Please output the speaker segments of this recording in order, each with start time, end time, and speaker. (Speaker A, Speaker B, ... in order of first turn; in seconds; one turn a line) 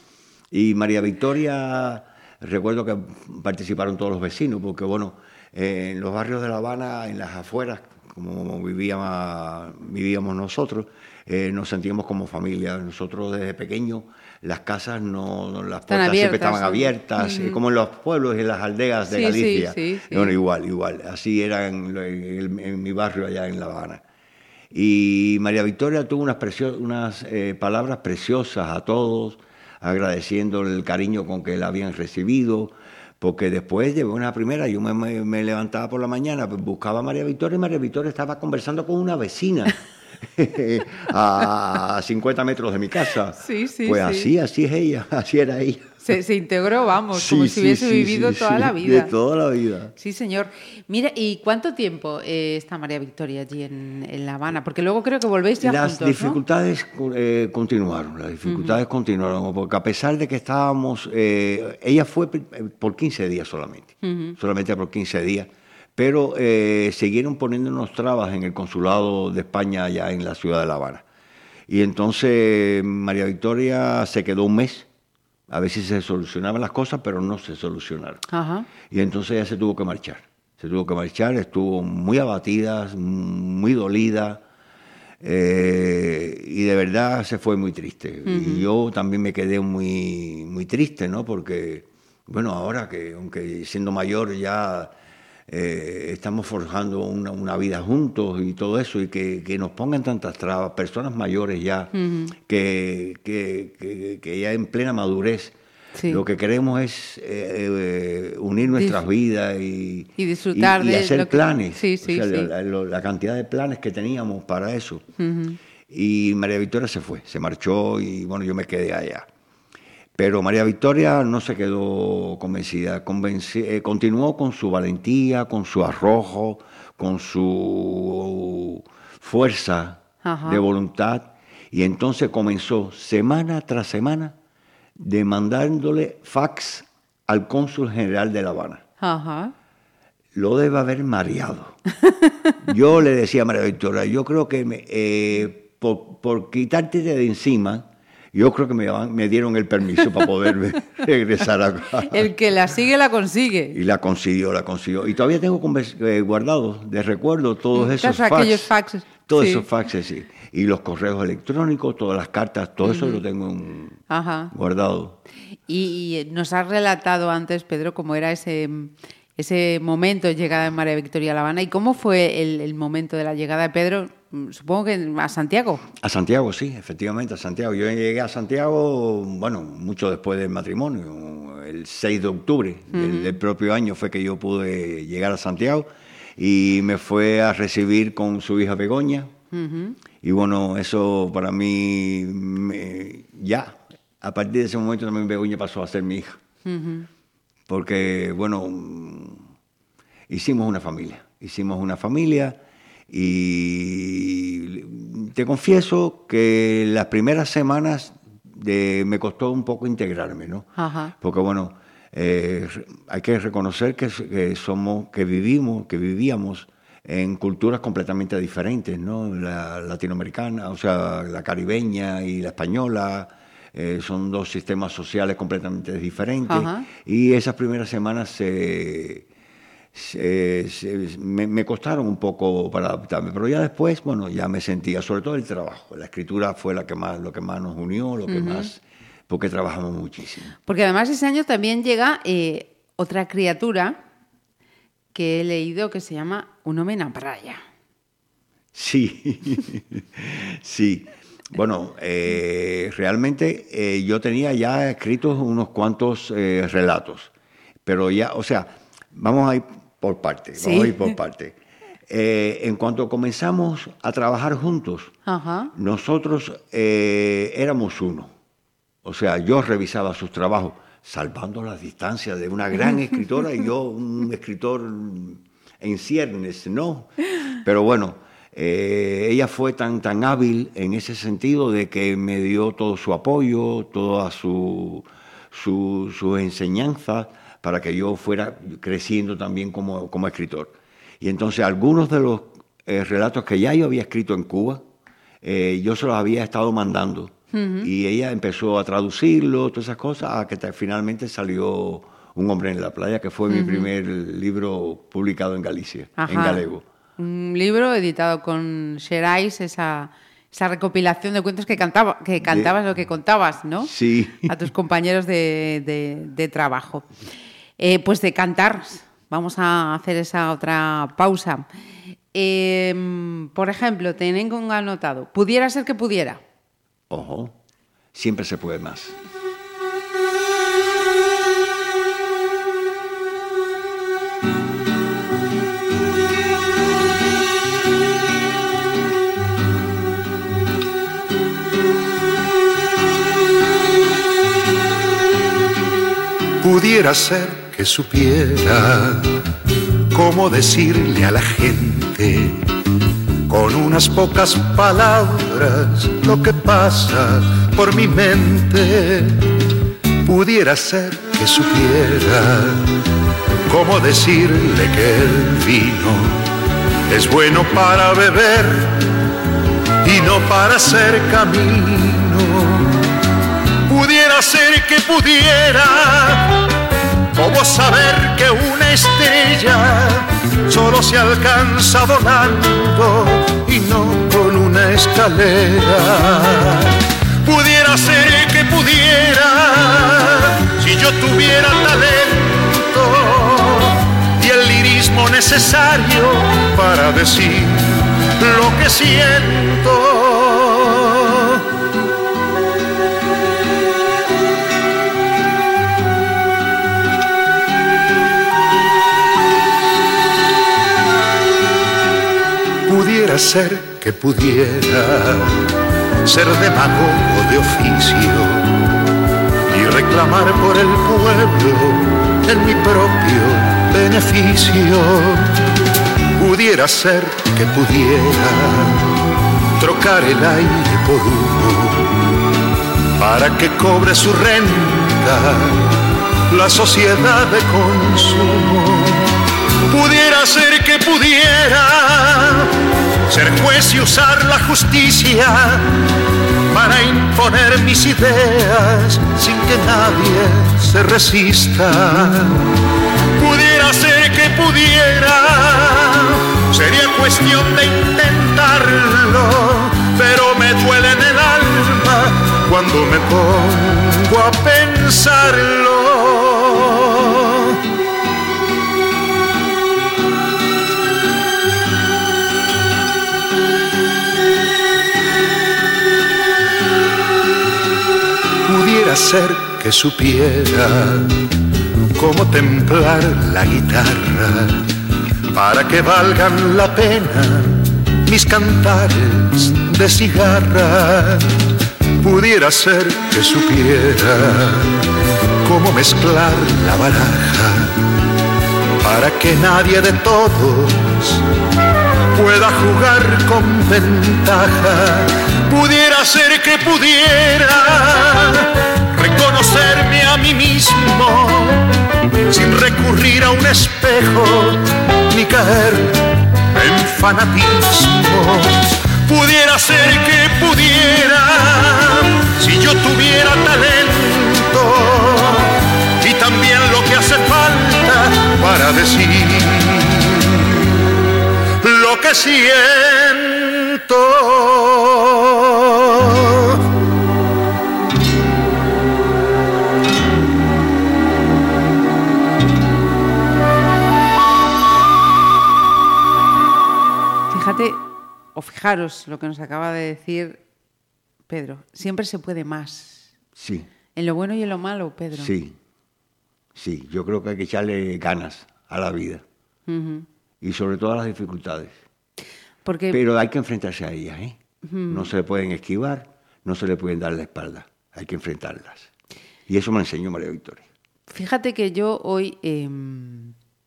Speaker A: 0.5-24.0
Speaker B: 15.9-17.6
Speaker B: 19.1-20.4
Speaker A: 24.7-46.0
Speaker B: 43.4-44.3
Speaker B: 46.0-49.1
Speaker A: 47.1-49.9
Speaker B: 50.0-56.4
Speaker A: 55.6-71.0
Speaker B: 58.5-58.8
Speaker B: 64.0-64.4
Speaker A: 71.7-74.9
Speaker A: 75.5-78.2
Speaker B: 78.3-78.7
Speaker A: 78.8-84.4
Speaker A: 85.2-94.9
Speaker B: 88.2-88.7
Speaker A: 95.5-105.5
Speaker B: 101.9-102.3
Speaker B: 106.0-106.2
Speaker A: 106.1-115.1
Speaker B: 108.8-109.1
Speaker B: 110.2-112.5
Speaker B: 115.2-115.6
Speaker A: 115.9-119.3
Speaker A: 120.2-134.3
Speaker B: 130.2-130.6
Speaker A: 135.0-138.8
Speaker B: 139.0-139.5
Speaker A: 140.3-141.8
Speaker A: 142.6-152.3
Speaker B: 152.0-153.8
Speaker A: 153.7-158.7
Speaker B: 157.8-159.7
Speaker A: 159.2-165.2
Speaker B: 162.8-163.2
Speaker B: 164.1-164.5
Speaker B: 165.7-175.9
Speaker A: 176.0-189.3
Speaker B: 182.9-183.3
Speaker B: 189.5-190.0
Speaker A: 190.2-196.4
Speaker B: 196.7-197.1
Speaker A: 197.7-199.4
Speaker A: 200.3-229.3
Speaker B: 210.8-211.1
Speaker B: 226.5-226.9
Speaker A: 229.9-240.5
Speaker B: 238.3-238.7
Speaker B: 240.7-244.0
Speaker B: 245.1-247.6
Speaker A: 248.7-257.3
Speaker A: 257.9-261.6
Speaker B: 260.6-261.1
Speaker A: 262.1-265.1
Speaker B: 265.3-265.7
Speaker A: 265.7-268.3
Speaker A: 269.0-294.8
Speaker A: 295.4-306.8
Speaker B: 297.5-297.9
Speaker B: 303.5-303.9
Speaker B: 306.2-306.7
Speaker B: 307.2-313.9
Speaker A: 312.5-312.7
Speaker A: 313.8-314.6
Speaker B: 314.4-317.1
Speaker B: 317.8-321.7
Speaker B: 322.3-326.4
Speaker A: 327.1-327.6
Speaker A: 328.1-329.2
Speaker C: 346.6-349.4
Speaker C: 350.1-352.7
Speaker C: 353.5-359.5
Speaker C: 360.2-362.9
Speaker C: 363.7-366.4
Speaker C: 367.1-369.0
Speaker C: 370.0-373.1
Speaker C: 373.9-376.6
Speaker C: 377.3-401.6
Speaker C: 412.9-415.7
Speaker C: 416.2-418.8
Speaker C: 419.7-425.6
Speaker C: 426.4-429.2
Speaker C: 429.8-432.2
Speaker C: 433.2-439.3
Speaker C: 439.9-442.7
Speaker C: 443.3-445.9
Speaker C: 446.7-452.7
Speaker C: 453.4-467.8
Speaker C: 478.6-481.5
Speaker C: 482.2-484.9
Speaker C: 485.5-491.5
Speaker C: 492.2-495.1
Speaker C: 495.6-498.1
Speaker C: 499.0-501.4
Speaker C: 502.3-511.8
Speaker C: 512.5-516.2
Speaker C: 516.7-530.9
Speaker C: 531.8-536.8
Speaker B: 547.5-548.0
Speaker B: 548.5-550.6
Speaker B: 551.5-553.3
Speaker A: 553.6-553.9
Speaker B: 554.1-555.5
Speaker A: 555.3-555.8
Speaker A: 556.8-559.5
Speaker B: 559.9-560.3
Speaker A: 560.6-562.0
Speaker B: 562.9-563.2
Speaker A: 563.1-564.6
Speaker B: 564.9-565.3
Speaker A: 565.1-569.1
Speaker A: 569.7-570.9
Speaker B: 571.3-573.5